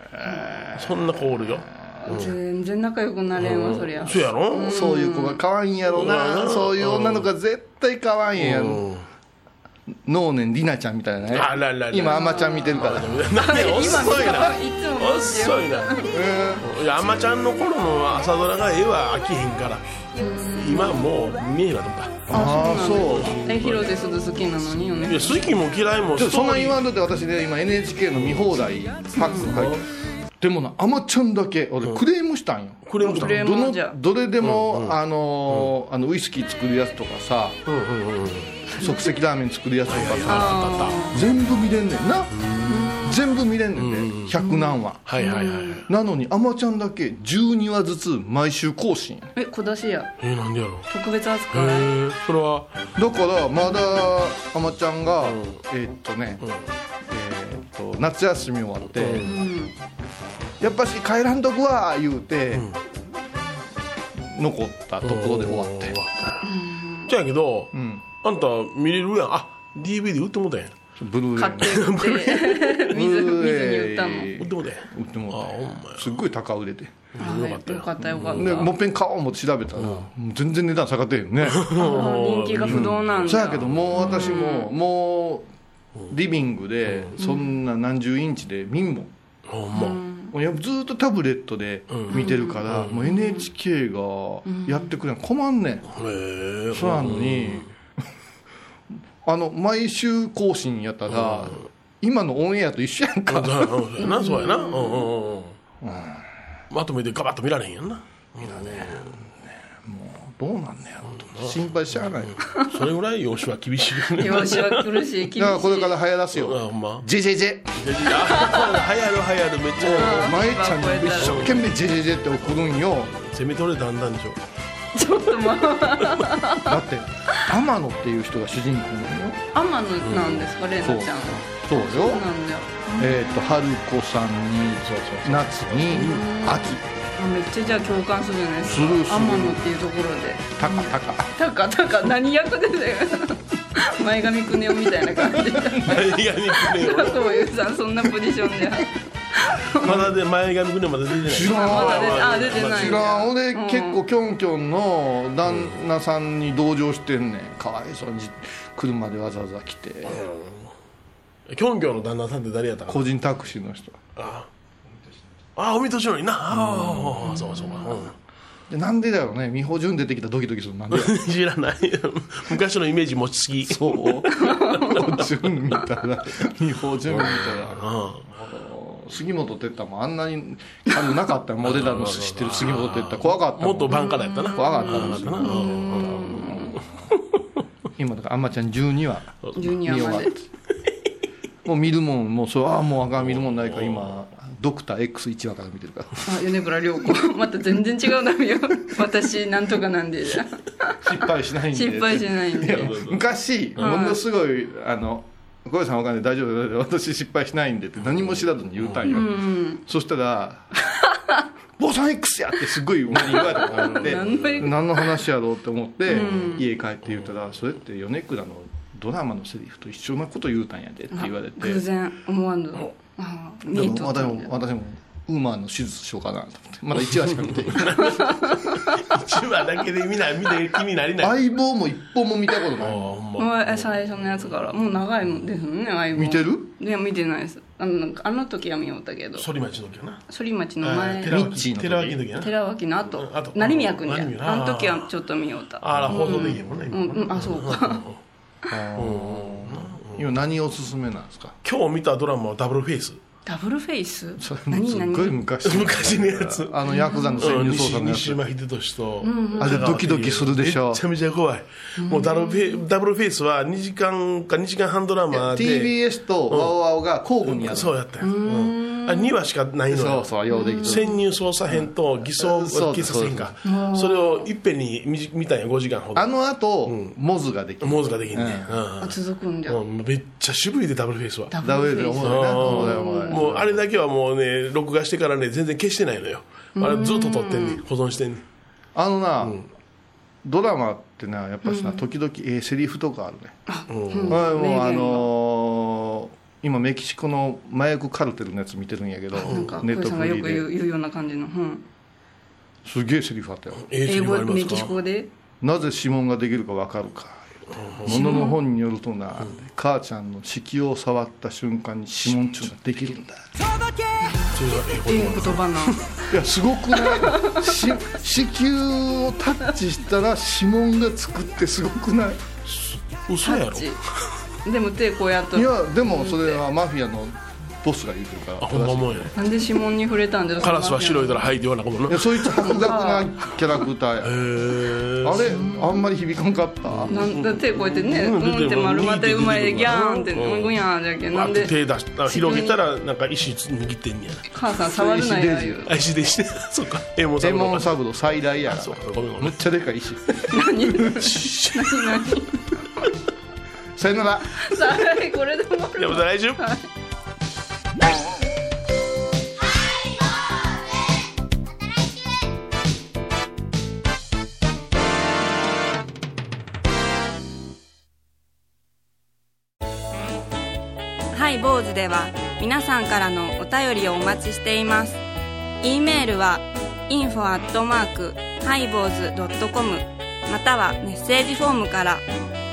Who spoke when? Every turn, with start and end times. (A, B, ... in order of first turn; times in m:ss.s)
0:00.1-0:01.7 A
0:00.8-0:02.4 B
0:02.0-0:05.4 C
0:03.4-0:04.8 B
0:04.6-0:08.8 A
0:05.9-0:07.3 B
0:08.4-0:09.1 B
0:09.9-0:13.1 A
0:11.3-0:15.9 B
0:12.1-0:12.8 C
0:13.4-0:16.1 C
0:16.1-0:16.7 A
0:16.6-0:19.9 B
0:20.2-0:21.0 C
0:20.6-0:24.1 B
0:22.3-0:23.4 A
0:22.3-0:25.4 C
0:25.0-0:26.8 B
0:26.2-0:29.8 A
0:29.2-0:29.5 C
0:29.4-0:29.8 B
0:30.4-0:37.6 A
0:32.9-0:33.4 B
0:33.0-0:34.0 C
0:34.4-0:35.0 B
0:37.7-0:38.6 B
0:38.8-0:39.1 C
0:38.8-0:42.4 A
0:39.9-0:41.0 B
0:40.3-0:41.2 C
0:42.3-0:43.0 B
0:42.7-0:43.2 C
0:43.0-0:45.0 A
0:43.8-0:44.4 B
0:44.4-0:45.8 C
0:45.0-0:45.9 B
0:45.9-0:49.3 A
0:49.4-0:50.1 C
0:50.2-0:50.9 B
0:50.9-0:51.9 C
0:51.5-0:52.7 B
0:53.0-0:56.4 A
0:55.2-0:55.6 B
0:56.4-0:56.7 B
0:57.1-0:59.3 A
0:59.0-0:59.3 B
0:59.2-0:59.7 C
1:00.6-1:02.7 A
1:02.5-1:02.8 B
1:04.2-1:06.0 A
1:05.0-1:06.5 B
1:06.4-1:07.1 C
1:07.1-1:10.8 B
1:07.7-1:08.0 A
1:11.0-1:11.9 A
1:11.4-1:14.3 C
1:11.6-1:12.8 B
1:12.9-1:17.1 A
1:14.4-1:16.2 B
1:17.2-1:18.6 B
1:17.2-1:18.7 C
1:18.2-1:21.7 A
1:19.8-1:20.1 B
1:21.4-1:23.9 B
1:21.8-1:24.7 C
1:22.6-1:25.5 A
1:26.1-1:29.1 A
1:26.9-1:27.1 B
1:27.2-1:27.6 C
1:29.5-1:30.0 B
1:29.7-1:30.3 C
1:30.3-1:35.9 A
1:31.9-1:33.0 B
1:32.1-1:33.5 C
1:34.5-1:34.9 C
1:35.9-1:37.7 B
1:36.7-1:37.7 A
1:39.2-1:43.7 A
1:41.1-1:41.6 B
1:43.3-1:45.6 B
1:44.0-1:45.1 C
1:45.8-1:46.3 A
1:46.7-1:49.2 B
1:48.4-1:52.4 A
1:51.1-1:54.9 B
1:54.2-1:56.0 C
1:55.4-1:57.7 A
1:56.3-1:57.1 B
1:57.8-2:00.4 B
1:58.1-1:58.8 C
1:59.8-2:03.1 A
1:59.9-2:01.5 C
2:01.1-2:01.8 B
2:02.4-2:04.4 B
2:04.9-2:06.8 C
2:06.6-2:09.4 A
2:09.5-2:13.6 C
2:10.0-2:10.5 B
2:10.8-2:12.3 A
2:13.0-2:16.9 A
2:14.7-2:16.2 B
2:15.9-2:26.0 C
2:18.6-2:19.7 A
2:18.7-2:19.1 B
2:20.6-2:21.3 A
2:25.8-2:27.5 B
2:26.6-2:30.0 C
2:29.7-2:33.3 B
2:29.8-2:30.1 A
2:31.3-2:40.2 A
2:31.4-2:34.0 C
2:35.5-2:35.7 B
2:40.1-2:40.7 B
2:41.5-2:43.1 B
2:42.9-2:44.0 A
2:44.2-2:44.5 B
2:45.6-2:48.2 B
2:46.6-2:47.8 A
2:48.7-2:51.2 A
2:50.9-2:54.2 B
2:53.6-3:07.0 A
2:54.4-2:55.0 C
2:57.1-2:58.3 B
3:01.6-3:07.4 B
3:03.9-3:06.8 C
3:08.0-3:10.5 A
3:09.4-3:09.7 B
3:09.6-3:10.3 C
3:11.6-3:16.3 A
3:13.2-3:14.1 B
3:16.3-3:21.0 C
3:21.0-3:30.7 A
3:21.7-3:22.9 C
3:22.7-3:23.2 B
3:23.8-3:24.2 C
3:28.1-3:29.0 B
3:29.1-3:29.8 C
3:30.9-3:31.4 C
3:31.8-3:41.8 A
3:33.2-3:34.8 B
3:33.4-3:35.2 C
3:36.1-3:36.7 C
3:36.1-3:36.5 B
3:41.1-3:44.5 C
3:43.7-3:48.2 A
3:47.2-3:51.4 B
3:48.0-3:49.0 C
3:51.2-3:53.2 A
3:52.8-3:54.5 B
3:53.4-3:59.5 C
3:56.1-3:56.7 A
3:59.4-4:00.2 B
4:00.3-4:01.3 C
4:00.8-4:05.1 B
4:01.3-4:02.2 A
4:02.4-4:08.0 C
4:05.8-4:08.2 B
4:06.0-4:06.6 A
4:08.7-4:11.6 A
4:09.0-4:10.2 B
4:11.6-4:13.2 B
4:13.5-4:15.4 C
4:14.4-4:18.4 A
4:15.6-4:16.8 B
4:16.9-4:17.4 C
4:17.4-4:25.9 B
4:19.2-4:19.9 C
4:19.6-4:21.0 A
4:22.0-4:22.8 C
4:25.3-4:27.9 A
4:26.5-4:26.8 B
4:27.6-4:36.3 B
4:28.2-4:29.3 C
4:29.9-4:31.2 A
4:30.5-4:31.2 C
4:31.7-4:33.6 A
4:33.6-4:34.5 C
4:36.2-4:38.8 A
4:36.8-4:37.2 B
4:37.8-4:41.5 B
4:39.0-4:39.8 C
4:41.5-4:43.4 C
4:41.6-4:43.8 A
4:42.2-4:48.4 B
4:46.8-4:47.8 C
4:49.0-4:49.6 A
4:49.4-4:49.7 B
4:50.4-4:53.6 A
4:51.6-4:52.0 C
4:53.7-4:55.3 C
4:53.9-4:54.4 B
4:54.3-5:00.7 A
4:59.4-5:01.8 C
5:02.8-5:03.9 A
5:03.8-5:05.0 B
5:04.1-5:05.3 C
5:05.6-5:13.4 A
5:07.7-5:08.4 B
5:08.1-5:08.6 C
5:14.2-5:16.0 C
5:14.5-5:16.2 B
5:16.3-5:22.4 A
5:17.2-5:17.7 C
5:22.7-5:24.0 B
5:23.4-5:24.0 C
5:24.6-5:26.6 C
5:25.5-5:29.3 A
5:28.6-5:29.4 B
5:29.4-5:31.5 C
5:30.6-5:32.7 B
5:32.1-5:34.5 A
5:32.6-5:33.3 C
5:34.2-5:35.6 B
5:35.2-5:37.1 A
5:35.5-5:36.0 C
5:36.9-5:40.8 B
5:37.1-5:41.7 C
5:41.3-5:44.5 B
5:42.3-5:42.8 C
5:44.5-5:45.9 C
5:44.9-5:45.8 A
5:45.8-5:49.6 B
5:47.4-5:50.4 A
5:50.5-5:53.1 C
5:51.2-5:52.1 B
5:54.0-5:54.7 A
5:54.6-5:56.9 C
5:56.0-5:56.6 B
6:11.3-6:15.2 C
6:15.8-6:22.2 C